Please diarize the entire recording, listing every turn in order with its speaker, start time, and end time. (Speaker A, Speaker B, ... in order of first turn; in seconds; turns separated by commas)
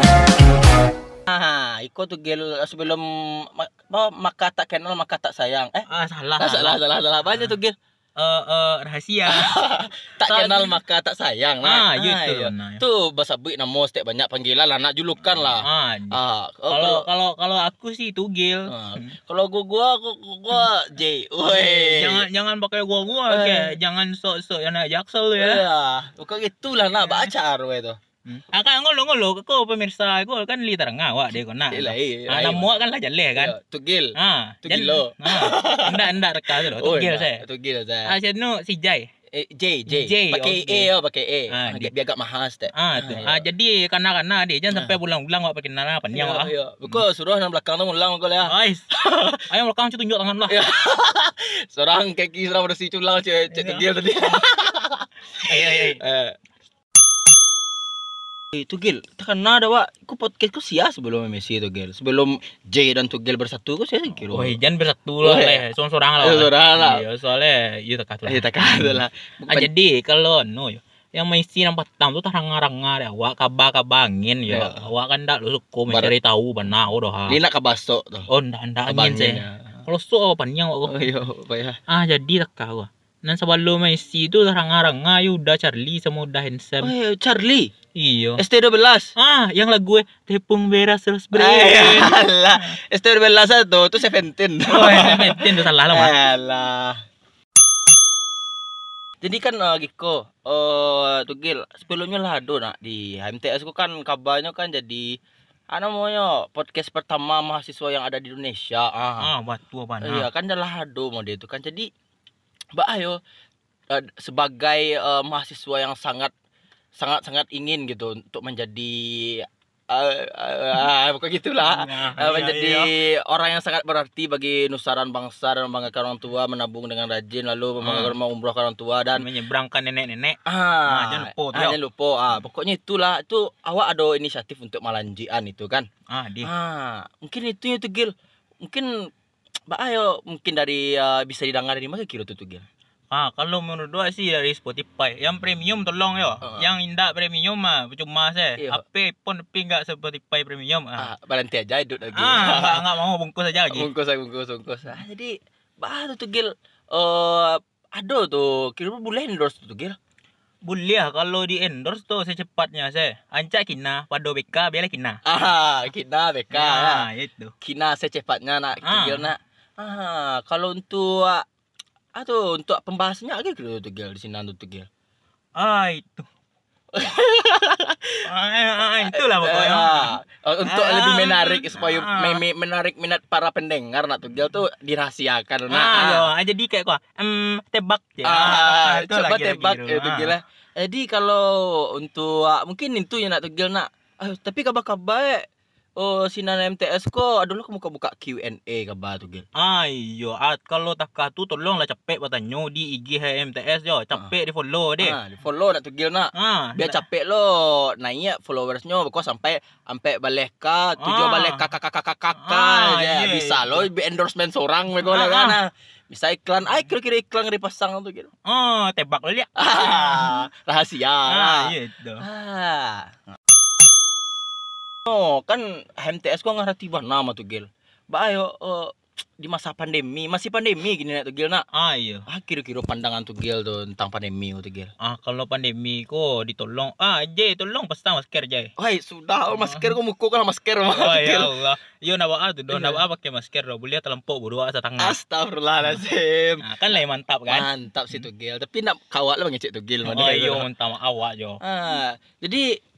Speaker A: 1.3-5.9, Speaker B: 5.9-6.8, Speaker A: 6.4-7.8, Speaker B: 8.2-9.5, Speaker A: 9.3-17.1, Speaker B: 10.2-10.8, Speaker B: 11.6-12.8, Speaker B: 15.6-19.1, Speaker A: 18.7-22.3, Speaker B: 21.4-25.6, Speaker A: 23.3-23.8, Speaker A: 25.4-28.0, Speaker B: 27.0-27.3, Speaker B: 28.3-33.5, Speaker A: 31.7-32.7, Speaker A: 33.4-38.1, Speaker B: 34.2-37.4, Speaker B: 38.1-39.1, Speaker A: 39.3-43.4, Speaker B: 39.9-40.9, Speaker B: 41.5-41.9, Speaker B: 42.7-47.0, Speaker A: 46.1-49.5, Speaker B: 48.4-48.9, Speaker B: 49.5-50.6, Speaker A: 50.5-56.4, Speaker B: 53.5-54.4, Speaker B: 55.4-56.0, Speaker A: 58.5-64.6, Speaker B: 64.3-77.4, Speaker A: 65.2-65.6, Speaker A: 66.2-67.0, Speaker A: 68.3-69.7, Speaker A: 74.5-74.9, Speaker A: 77.3-78.3, Speaker B: 78.3-81.1, Speaker A: 78.9-79.8, Speaker A: 80.9-81.8, Speaker B: 81.9-86.9, Speaker A: 86.8-87.7, Speaker B: 88.0-88.4, Speaker A: 88.4-89.1, Speaker B: 89.2-92.7, Speaker A: 91.3-97.0, Speaker B: 94.7-96.1, Speaker A: 99.2-105.2, Speaker A: 105.7-109.3, Speaker B: 109.2-110.3, Speaker A: 110.0-111.9, Speaker A: 112.8-113.2, Speaker A: 113.9-116.3, Speaker A: 117.0-129.3, Speaker B: 121.6-122.9, Speaker B: 127.8-128.1, Speaker B: 129.2-131.8, Speaker A: 130.5-135.9, Speaker B: 136.1-136.5, Speaker A: 136.4-138.9, Speaker A: 139.7-142.7, Speaker B: 143.1-151.1, Speaker A: 146.4-146.7, Speaker A: 151.0-152.9, Speaker B: 152.2-153.9, Speaker A: 153.7-160.0, Speaker B: 160.6-165.2, Speaker A: 165.2-167.1, Speaker B: 166.5-167.5, Speaker A: 167.6-171.4, Speaker B: 168.8-169.3, Speaker A: 172.2-174.9, Speaker B: 175.6-176.3, Speaker A: 176.9-178.2, Speaker B: 178.2-182.4, Speaker A: 179.0-186.3, Speaker B: 185.7-190.3, Speaker A: 188.2-195.5, Speaker A: 196.0-199.4, Speaker B: 199.6-205.2, Speaker A: 205.0-218.3, Speaker B: 206.3-207.0, Speaker B: 211.0-211.7, Speaker B: 212.3-213.9, Speaker B: 215.0-215.6, Speaker B: 218.4-220.4, Speaker A: 219.6-223.2, Speaker B: 221.3-222.3, Speaker A: 225.1-231.6, Speaker B: 231.7-232.3, Speaker A: 232.3-234.9, Speaker B: 235.0-238.7, Speaker A: 238.8-241.5, Speaker B: 239.5-239.9, Speaker B: 240.9-245.2, Speaker A: 242.7-243.0, Speaker A: 245.0-246.6, Speaker B: 246.6-248.3, Speaker A: 247.5-250.7, Speaker B: 250.1-251.6, Speaker A: 251.6-252.7